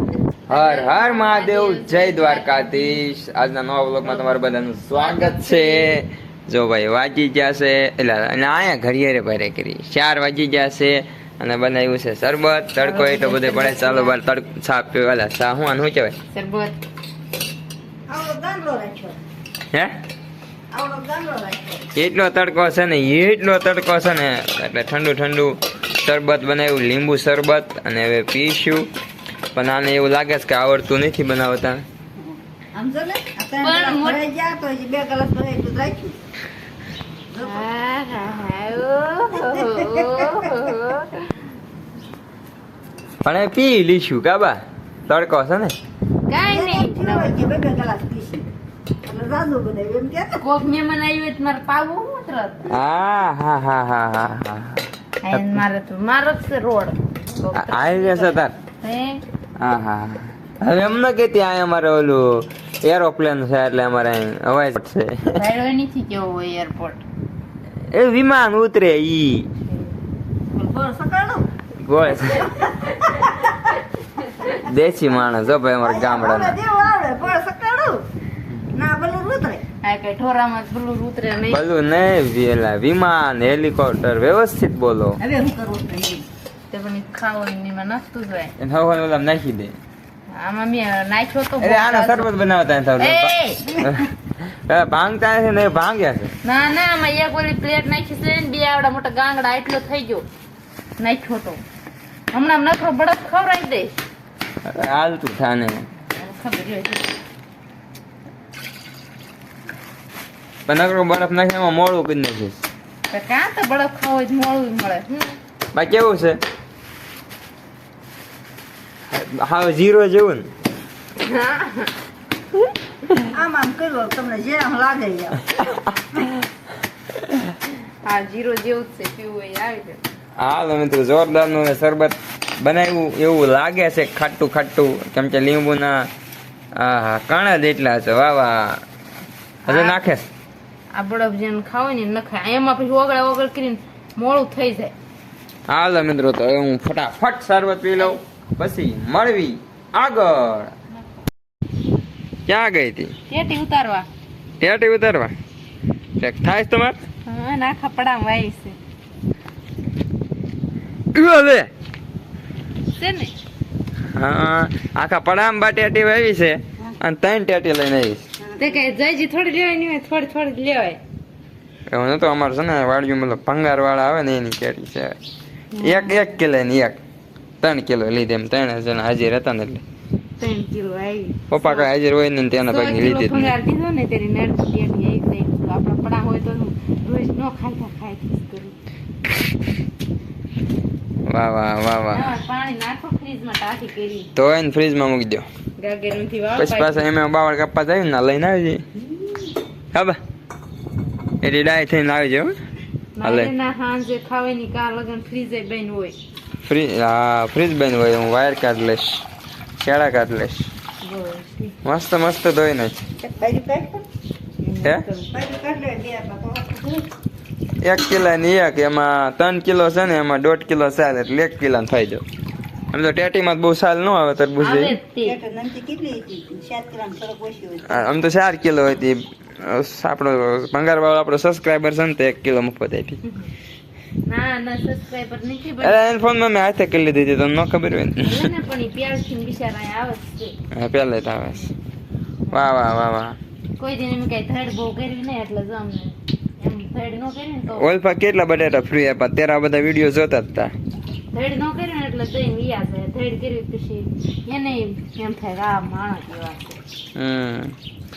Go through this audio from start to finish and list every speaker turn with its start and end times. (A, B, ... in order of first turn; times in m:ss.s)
0:00.5-0:03.0 A
0:00.5-0:16.2 B
0:04.0-0:06.0 A
0:12.8-0:14.2 A
0:16.3-0:16.8 A
0:18.1-0:19.2 C
0:20.7-0:21.9 C
0:22.0-0:28.9 B
0:29.5-0:31.8 B
0:32.2-0:36.2 C
0:33.6-0:34.2 A
0:37.3-0:37.6 C
0:37.4-0:41.3 A
0:39.3-0:40.4 C
0:43.2-0:45.8 B
0:46.3-0:47.4 A
0:46.3-0:48.5 C
0:49.0-0:50.4 C
0:50.4-0:52.8 A
0:52.7-0:55.6 B
0:55.2-0:59.2 A
0:57.5-0:58.6 B
0:59.6-1:05.4 B
1:05.3-1:07.0 A
1:07.9-1:09.5 B
1:10.5-1:11.5 C
1:11.8-1:12.4 B
1:12.4-1:13.5 C
1:14.6-1:16.5 B
1:15.8-1:18.0 C
1:18.7-1:19.6 C
1:19.8-1:21.6 A
1:21.5-1:25.2 B
1:25.2-1:26.2 C
1:26.7-1:28.5 A
1:28.6-1:29.8 B
1:30.3-1:32.3 A
1:31.6-1:36.3 B
1:33.0-1:33.9 A
1:36.4-1:40.2 A
1:41.0-1:41.6 A
1:42.3-1:43.9 A
1:44.6-1:45.9 B
1:46.0-1:47.1 A
1:50.6-1:52.6 B
1:53.1-1:55.4 A
1:55.7-1:56.4 B
1:59.1-2:00.5 B
2:01.2-2:01.9 A
2:03.3-2:05.5 C
2:08.0-2:10.0 A
2:10.4-2:16.1 B
2:16.7-2:18.8 B
2:19.6-2:20.2 B
2:19.6-2:20.0 A
2:20.9-2:24.9 A
2:25.7-2:30.7 B
2:32.4-2:33.1 B
2:33.3-2:34.0 A
2:34.6-2:35.3 B
2:36.2-2:37.0 B
2:37.2-2:38.8 A
2:41.1-2:41.7 B
2:43.0-2:43.3 A
2:44.1-2:48.2 B
2:48.4-2:48.7 C
2:48.6-2:51.0 A
2:51.9-2:55.2 B
2:55.7-2:56.3 A
2:55.8-2:57.0 B
2:57.6-2:59.8 B
3:00.4-3:01.9 A
3:01.5-3:03.5 B
3:02.7-3:08.8 A
3:11.2-3:12.3 B
3:12.1-3:14.3 A
3:14.4-3:15.4 B
3:15.8-3:17.1 A
3:16.6-3:18.8 B
3:19.9-3:20.2 B
3:21.4-3:22.5 B
3:23.2-3:26.2 A
3:23.2-3:23.5 B
3:26.6-3:29.2 B
3:29.8-3:30.7 B
3:31.0-3:31.7 A
3:31.8-3:33.0 B
3:33.2-3:34.0 C
3:34.6-3:35.4 A
3:35.3-3:37.1 C
3:37.8-3:42.2 B
3:42.9-3:45.0 B
3:44.6-3:45.4 A
3:45.2-3:48.1 C
3:48.0-3:53.2 B
3:53.2-3:53.5 A
3:54.2-3:56.2 A
3:55.8-3:58.4 B
3:58.2-4:00.5 A
4:00.7-4:01.6 B
4:02.5-4:03.4 B
4:03.8-4:07.9 A
4:07.8-4:10.7 B
4:11.3-4:16.8 A
4:17.1-4:17.7 B